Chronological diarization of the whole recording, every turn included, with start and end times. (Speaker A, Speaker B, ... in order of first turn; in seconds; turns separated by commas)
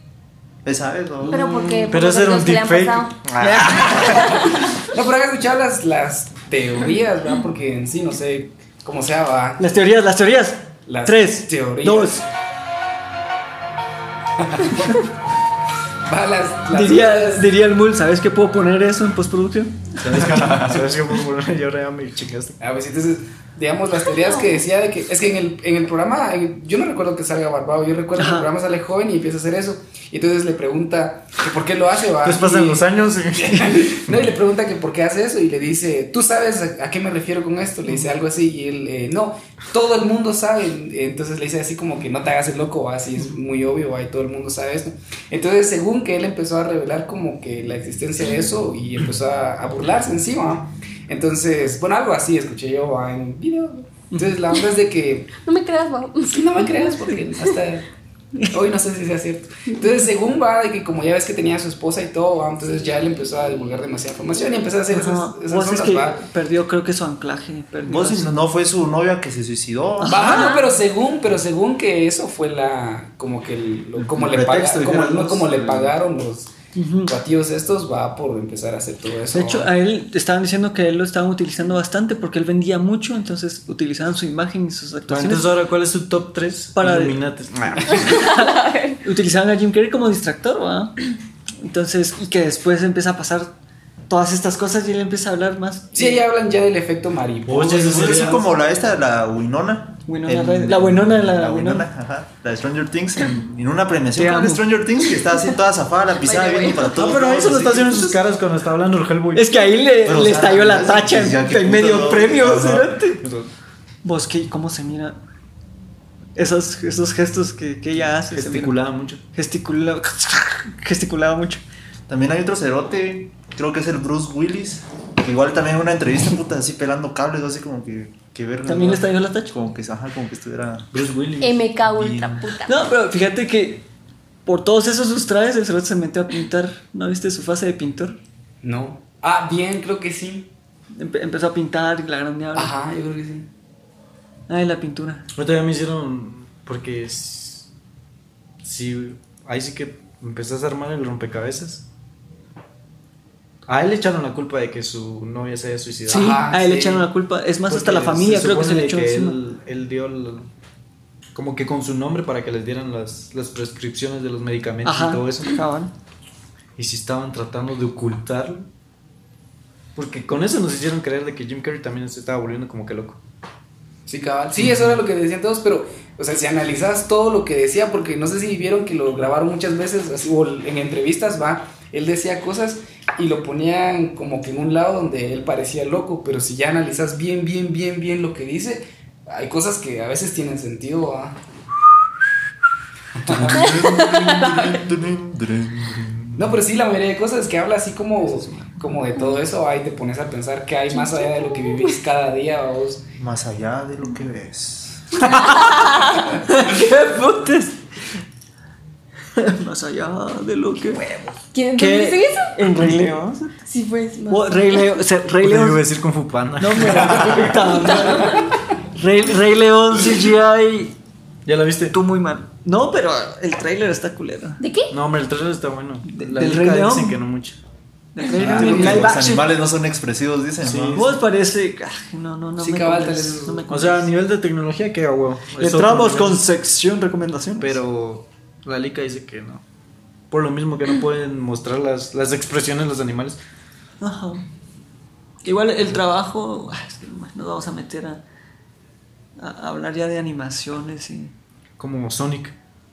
Speaker A: 0.6-1.4, Speaker B: 1.2-3.1, Speaker C: 1.3-1.9, Speaker D: 1.9-4.4, Speaker C: 3.4-4.6, Speaker B: 4.0-4.7, Speaker E: 4.8-9.6, Speaker C: 9.6-12.2, Speaker E: 10.8-12.2, Speaker E: 14.4-15.0, Speaker E: 16.1-17.5, Speaker C: 16.7-20.7, Speaker D: 20.0-22.6, Speaker E: 22.6-55.4, Speaker C: 28.1-28.5, Speaker D: 32.2-34.3, Speaker B: 55.4-57.1, Speaker E: 56.3-57.9, Speaker E: 58.4-66.2, Speaker C: 64.9-68.4, Speaker A: 67.8-70.2, Speaker C: 70.0-70.6, Speaker E: 70.1-76.5, Speaker B: 70.2-70.7, Speaker A: 74.1-75.9, Speaker C: 76.7-77.1, Speaker E: 77.1-79.7, Speaker C: 79.3-85.5, Speaker D: 85.1-88.2, Speaker C: 86.8-87.2, Speaker B: 87.9-89.0, Speaker C: 88.0-91.0, Speaker C: 91.6-93.5, Speaker C: 94.1-96.2, Speaker E: 95.9-98.4, Speaker D: 97.5-98.4, Speaker A: 97.8-108.2, Speaker C: 100.1-101.9, Speaker C: 104.1-104.7, Speaker B: 106.2-107.0, Speaker D: 106.9-109.5, Speaker C: 109.3-113.2, Speaker A: 110.0-113.0, Speaker D: 113.2-113.5, Speaker C: 114.0-115.2, Speaker C: 116.3-118.7, Speaker D: 118.3-119.2, Speaker C: 119.3-121.6, Speaker A: 122.1-130.9, Speaker C: 128.7-129.5, Speaker D: 130.9-131.7, Speaker B: 131.4-132.9, Speaker A: 131.8-132.5, Speaker C: 132.7-133.9, Speaker C: 134.4-138.2, Speaker E: 138.6-140.5, Speaker C: 140.9-142.7, Speaker E: 142.5-143.5, Speaker C: 144.5-145.3, Speaker D: 145.3-147.7, Speaker D: 148.6-151.8, Speaker D: 153.7-156.3, Speaker E: 156.1-157.1, Speaker C: 156.1-159.4, Speaker D: 157.7-160.5, Speaker D: 161.3-165.6, Speaker C: 164.8-165.9, Speaker D: 166.8-168.7, Speaker D: 169.9-173.2, Speaker E: 174.1-191.3, Speaker E: 193.1-193.9, Speaker A: 193.3-196.6, Speaker B: 193.5-194.9, Speaker E: 196.3-203.0, Speaker C: 198.4-198.7, Speaker B: 201.0-201.9, Speaker A: 203.2-205.2, Speaker C: 205.2-207.8, Speaker B: 205.2-206.3, Speaker C: 209.3-211.1, Speaker B: 211.5-212.6, Speaker C: 211.8-213.6, Speaker B: 213.6-215.0, Speaker C: 214.3-215.8, Speaker D: 215.4-217.7, Speaker C: 216.6-220.9, Speaker B: 217.8-218.5, Speaker D: 221.4-221.9, Speaker C: 221.9-224.6, Speaker B: 224.6-224.9, Speaker D: 224.9-227.6, Speaker C: 226.1-227.2, Speaker C: 228.1-229.5, Speaker D: 228.3-229.2, Speaker E: 228.4-229.0, Speaker A: 228.4-231.2, Speaker D: 230.6-231.1, Speaker C: 230.9-234.1, Speaker E: 232.6-233.6, Speaker D: 233.7-236.4, Speaker C: 235.6-237.8, Speaker D: 237.6-239.6, Speaker D: 240.3-243.4, Speaker C: 244.0-244.4, Speaker C: 245.4-248.2, Speaker C: 249.4-251.3, Speaker D: 251.8-252.5